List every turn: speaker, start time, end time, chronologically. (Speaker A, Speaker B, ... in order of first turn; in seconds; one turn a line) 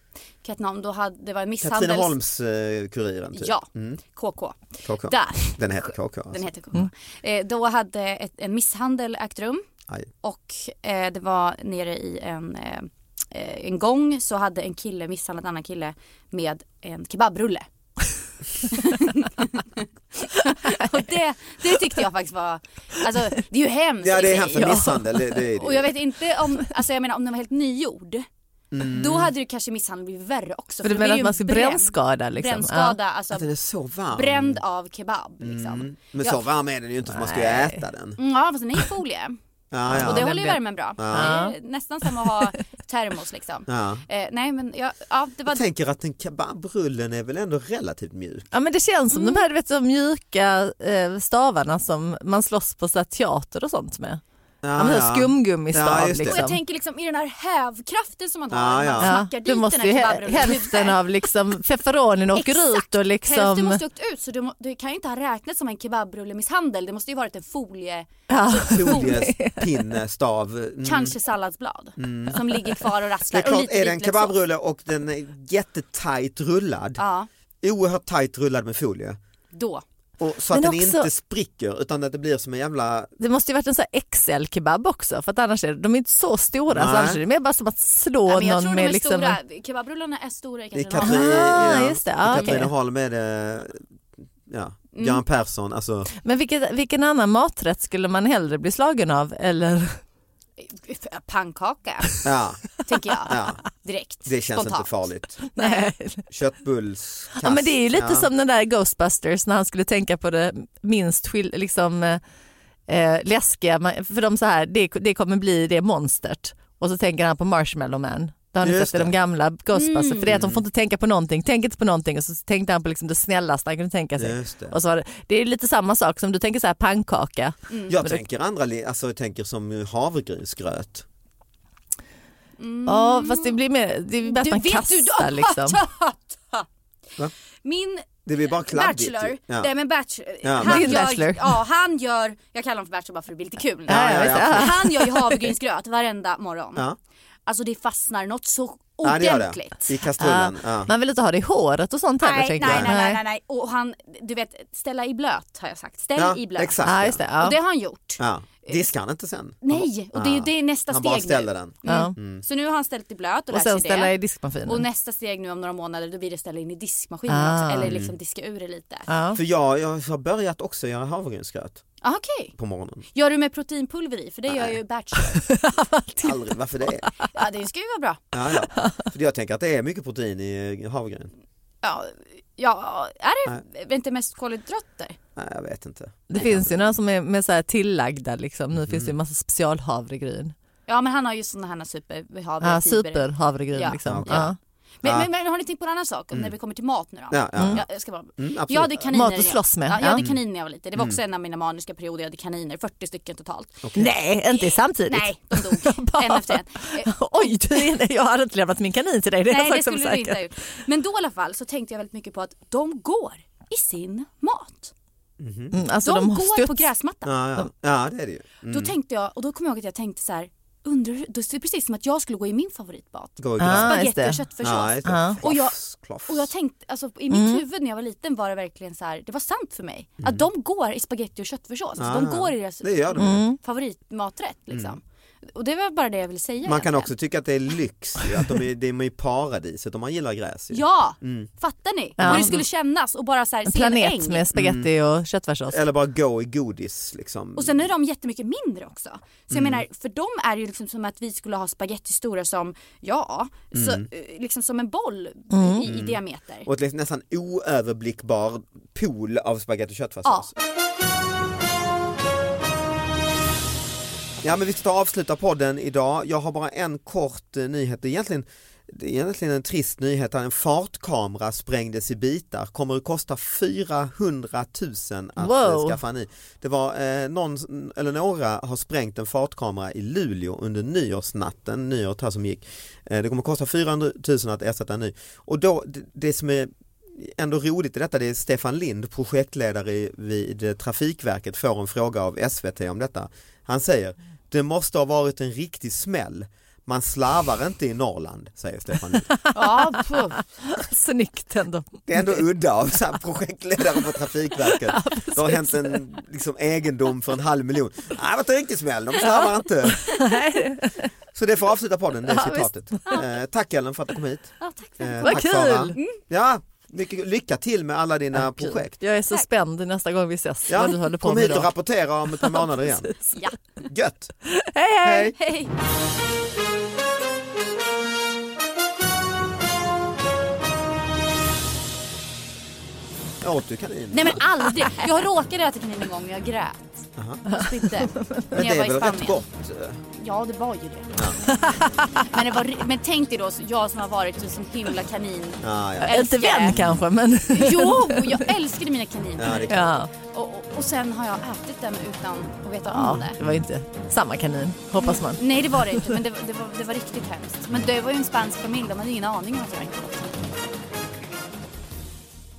Speaker A: 0.4-2.1
Speaker B: 1.6-4.0
Speaker A: 3.3-9.6
Speaker B: 4.8-6.5
Speaker A: 10.2-17.6
Speaker A: 18.7-25.0
Speaker B: 24.0-25.9
Speaker A: 25.5-28.3
Speaker B: 28.7-29.3
Speaker A: 28.8-33.5
Speaker C: 30.8-33.0
Speaker B: 33.3-34.6
Speaker A: 34.1-36.4
Speaker B: 35.4-38.2
Speaker C: 37.1-37.8
Speaker A: 38.2-39.4
Speaker B: 39.7-40.3
Speaker A: 39.9-45.6
Speaker C: 39.9-42.5
Speaker B: 41.0-41.4
Speaker B: 43.7-44.0
Speaker B: 45.5-48.5
Speaker C: 48.5-54.2
Speaker A: 49.1-49.4
Speaker B: 54.6-56.5
Speaker C: 54.8-56.6
Speaker A: 56.3-61.0
Speaker B: 58.5-59.1
Speaker C: 59.0-63.8
Speaker A: 62.3-69.1
Speaker C: 68.3-69.9
Speaker B: 68.7-71.1
Speaker A: 70.8-74.3
Speaker B: 72.0-72.4
Speaker B: 73.3-77.0
Speaker A: 77.0-77.3
Speaker B: 77.6-79.2
Speaker A: 79.5-79.8
Speaker B: 80.2-83.1
Speaker C: 80.5-81.1
Speaker C: 83.2-89.4
Speaker B: 86.7-87.2
Speaker A: 88.3-92.6
Speaker B: 90.7-93.8
Speaker C: 91.0-92.7
Speaker B: 94.5-96.1
Speaker A: 95.0-95.2
Speaker C: 96.2-100.0
Speaker A: 100.6-102.2
Speaker B: 102.2-102.7
Speaker A: 102.8-105.9
Speaker B: 103.3-103.6
Speaker B: 104.2-105.4
Speaker C: 105.5-106.2
Speaker B: 106.3-108.3
Speaker C: 107.4-112.2
Speaker C: 112.9-128.2
Speaker B: 118.6-119.1
Speaker A: 119.7-120.5
Speaker B: 120.3-120.6
Speaker B: 124.2-124.8
Speaker A: 127.7-128.0
Speaker B: 127.9-131.0
Speaker A: 132.6-133.6
Speaker C: 132.8-135.8
Speaker A: 134.2-136.7
Speaker A: 137.6-146.8
Speaker B: 138.2-139.7
Speaker B: 140.4-141.1
Speaker C: 140.6-141.6
Speaker B: 143.9-144.8
Speaker C: 143.9-145.5
Speaker A: 147.4-149.9
Speaker B: 149.0-150.9
Speaker C: 150.2-153.2
Speaker A: 152.2-156.8
Speaker B: 152.6-152.9
Speaker B: 156.1-157.2
Speaker C: 156.8-157.6
Speaker A: 157.4-158.8
Speaker B: 158.2-162.4
Speaker A: 159.6-164.1
Speaker C: 161.8-162.1
Speaker C: 163.5-164.8
Speaker A: 164.7-169.1
Speaker C: 167.3-167.9
Speaker B: 167.8-168.1
Speaker C: 169.1-169.4
Speaker B: 169.3-171.8
Speaker A: 172.0-172.5
Speaker B: 172.6-173.0
Speaker A: 173.1-175.5
Speaker B: 174.5-174.8
Speaker C: 175.5-176.4
Speaker B: 176.2-177.1
Speaker A: 177.3-178.2
Speaker B: 178.3-181.3
Speaker A: 181.8-185.2
Speaker B: 185.3-186.8
Speaker C: 186.3-190.5
Speaker B: 188.7-189.1
Speaker A: 190.9-203.8
Speaker C: 192.6-194.6
Speaker B: 194.1-194.5
Speaker B: 195.0-195.3
Speaker B: 197.3-197.8
Speaker C: 197.6-197.8
Speaker B: 198.4-199.0
Speaker C: 199.1-200.2
Speaker B: 200.2-200.4
Speaker B: 203.8-204.1
Speaker C: 204.0-210.5
Speaker A: 204.5-207.9
Speaker A: 209.5-214.9
Speaker B: 215.4-215.8
Speaker C: 215.7-216.9
Speaker A: 216.0-217.3
Speaker B: 217.2-218.9
Speaker A: 218.7-225.7
Speaker B: 223.4-224.0
Speaker C: 223.6-224.4
Speaker B: 224.6-226.5
Speaker C: 225.0-225.4
Speaker A: 226.3-237.1
Speaker C: 227.3-227.6
Speaker B: 232.0-233.5
Speaker C: 233.2-233.6
Speaker B: 234.7-235.0
Speaker B: 236.6-241.5
Speaker A: 240.7-244.4
Speaker C: 242.2-242.6
Speaker B: 242.2-242.6
Speaker C: 243.7-245.8
Speaker B: 244.5-244.9
Speaker B: 245.7-247.9
Speaker A: 247.6-256.7
Speaker B: 249.5-249.8
Speaker B: 253.7-254.1
Speaker C: 255.5-255.9
Speaker B: 255.8-260.5
Speaker B: 264.4-299.3
Speaker C: 275.4-275.9
Speaker C: 299.3-302.4
Speaker A: 299.5-300.4
Speaker B: 302.1-310.2
Speaker C: 304.6-306.0
Speaker C: 310.1-311.1
Speaker B: 311.3-319.0
Speaker C: 312.2-313.2
Speaker A: 314.6-315.4
Speaker C: 315.2-316.0
Speaker C: 318.3-321.7
Speaker B: 320.7-323.1
Speaker C: 322.4-323.4
Speaker A: 323.3-323.8
Speaker B: 323.9-324.3
Speaker C: 324.5-325.3
Speaker B: 325.0-325.3
Speaker A: 325.1-325.7
Speaker B: 333.4-334.4
Speaker A: 334.1-339.4
Speaker B: 337.2-337.4
Speaker C: 337.5-338.5
Speaker B: 338.5-340.0
Speaker A: 340.1-346.8
Speaker C: 341.5-342.3
Speaker B: 345.6-347.0
Speaker C: 346.0-348.4
Speaker A: 347.5-353.4
Speaker B: 349.4-349.9
Speaker C: 349.7-350.1
Speaker C: 352.9-356.2
Speaker B: 353.1-353.6
Speaker A: 354.9-360.4